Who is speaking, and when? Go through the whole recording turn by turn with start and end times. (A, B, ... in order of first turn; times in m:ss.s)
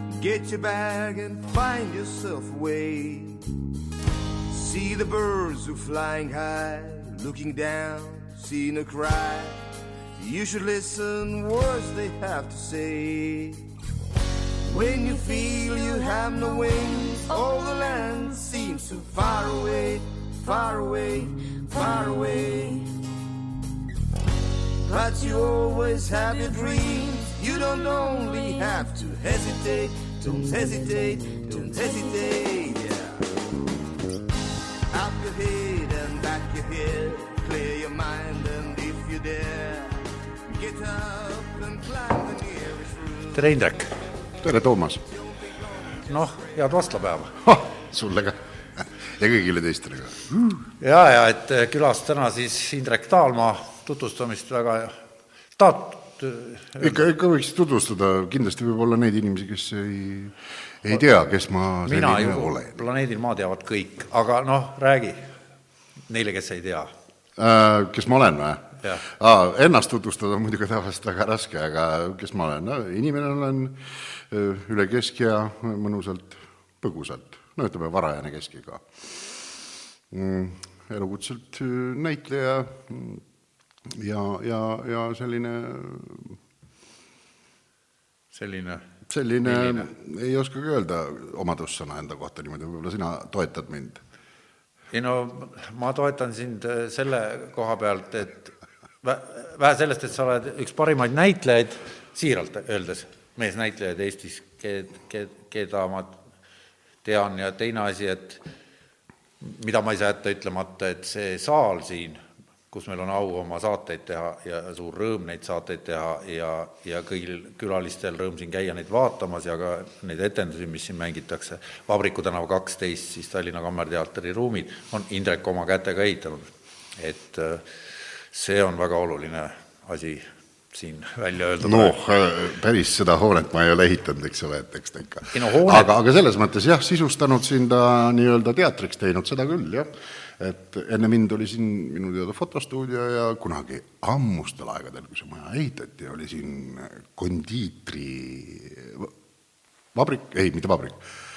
0:00.2-0:03.4 A
0:04.5-0:09.6 A
0:10.2-0:13.7 A
0:14.7-0:23.0 A
0:24.9-0:33.3 A
0:34.9-0:43.7 A
0:43.3-0:44.0 B
0:44.4-0:45.0 C
0:45.0-0:46.9 A
0:46.1-0:47.4 B
0:47.4-0:50.6 C
0:50.8-0:55.0 B
0:55.6-0:57.0 B
0:56.8-1:02.8 C
1:01.8-1:05.3 B
1:06.1-1:06.9 B
1:07.4-1:18.9 C
1:20.1-1:23.2 C
1:23.9-1:26.4 C
1:28.3-1:28.9 B
1:29.1-1:34.0 C
1:29.4-1:29.9 B
1:34.9-1:46.2 B
1:47.0-1:48.4 B
1:49.4-2:07.7 B
2:08.3-2:12.0 B
2:11.6-2:29.1 C
2:15.3-2:16.0 B
2:29.9-2:31.0 C